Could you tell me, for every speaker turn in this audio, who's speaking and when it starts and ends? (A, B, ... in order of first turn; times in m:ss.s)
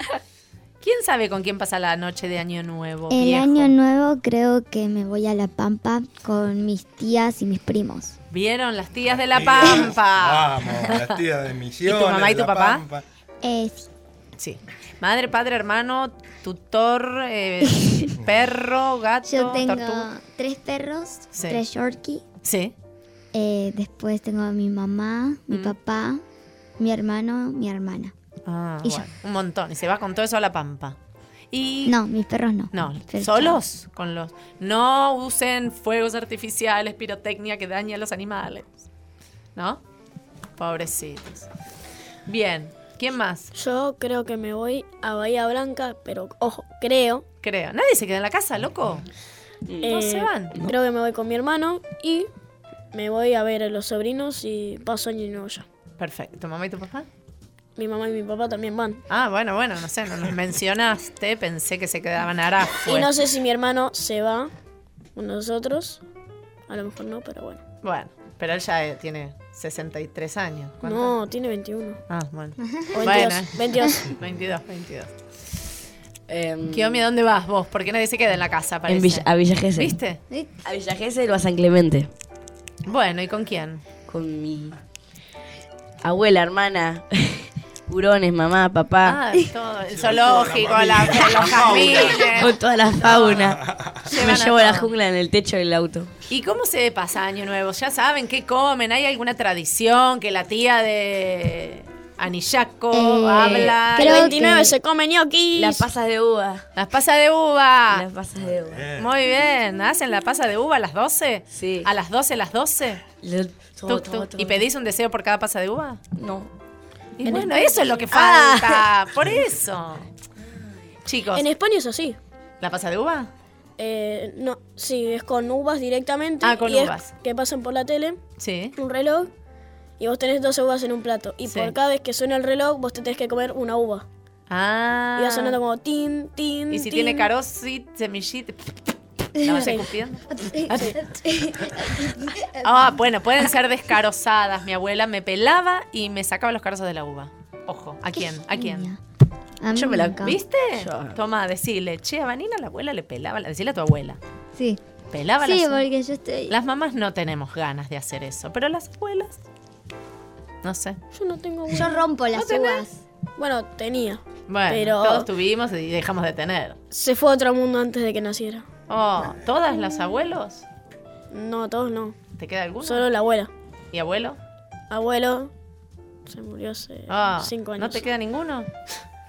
0:00.8-0:03.7 A
0:03.1-0:08.2 B
0:08.3-0:11.2 A
0:09.2-0:13.0 C
0:11.8-0:12.8 A
0:13.4-0:13.9 B
0:14.4-0:20.1 A
0:19.2-0:22.2 B
0:21.3-0:21.6 A
0:22.4-0:22.7 A
0:23.3-0:26.2 B
0:25.5-0:25.7 A
0:26.8-0:28.1 B
0:28.4-0:31.0 A
0:31.5-0:32.0 A
0:31.8-0:33.6 B
0:32.7-0:38.7 A
0:39.5-0:39.8 A
0:40.6-0:41.5 A
0:42.2-0:43.5 A
0:43.5-0:47.2 D
0:47.4-0:49.0 A
0:49.7-0:50.0 E
0:49.8-0:52.3 D
0:49.8-0:50.5 A
0:52.9-0:55.6 D
0:56.0-0:57.1 A
0:57.8-0:59.0 D
0:59.1-1:03.1 A
1:02.8-1:04.5 D
1:05.2-1:06.0 D
1:06.7-1:07.6 D
1:07.8-1:11.2 A
1:10.8-1:12.0 D
1:12.1-1:15.1 A
1:12.7-1:13.0 B
1:12.9-1:14.1 D
1:16.3-1:17.0 E
1:16.7-1:20.2 A
1:18.8-1:20.0 E
1:20.6-1:22.1 E
1:22.9-1:23.8 A
1:24.0-1:24.8 E
1:26.0-1:29.2 E
1:29.0-1:33.4 A
1:29.9-1:32.4 C
1:32.3-1:33.6 E
1:33.1-1:34.0 C
1:34.0-1:34.9 A
1:34.1-1:36.1 E
1:36.3-1:44.4 A
1:42.9-1:44.7 B
1:43.9-1:45.9 D
1:45.5-1:46.6 E
1:46.7-1:48.0 A
1:47.9-1:48.9 E
1:48.4-1:49.1 C
1:49.0-1:53.0 A
1:51.5-1:51.9 E
1:53.2-1:54.6 E
1:53.8-1:56.0 A
1:56.2-1:56.5 E
1:57.2-2:00.1 A
1:57.2-1:58.8 E
2:01.0-2:01.5 A
2:01.3-2:02.2 D
2:02.6-2:03.3 A
2:03.8-2:08.2 D
2:06.4-2:07.1 A
2:08.4-2:08.7 A
2:08.8-2:09.3 D
2:10.0-2:14.0 D
2:11.4-2:11.7 A
2:14.5-2:15.6 A
2:15.2-2:17.3 D
2:16.7-2:18.6 A
2:19.4-2:19.7 B
2:19.4-2:21.0 A
2:19.5-2:19.8 D
2:20.3-2:23.0 B
2:22.6-2:28.9 A
2:28.2-2:29.0 B
2:29.6-2:30.4 B
2:29.7-2:31.2 E
2:30.2-2:34.2 A
2:34.5-2:34.8 B
2:35.1-2:35.8 A
2:35.4-2:36.5 B
2:36.5-2:39.4 A
2:40.6-2:41.0 A
2:41.1-2:42.0 D
2:41.7-2:43.0 B
2:42.3-2:42.8 A
2:43.4-2:45.3 D
2:44.5-2:46.8 A
2:46.9-2:48.7 D
2:48.9-2:50.6 A
2:51.3-2:52.2 D
2:52.4-2:53.1 A
2:52.8-2:53.5 D
2:53.9-2:54.4 A
2:54.9-2:55.5 D
2:56.2-2:58.0 D
2:57.1-2:58.7 A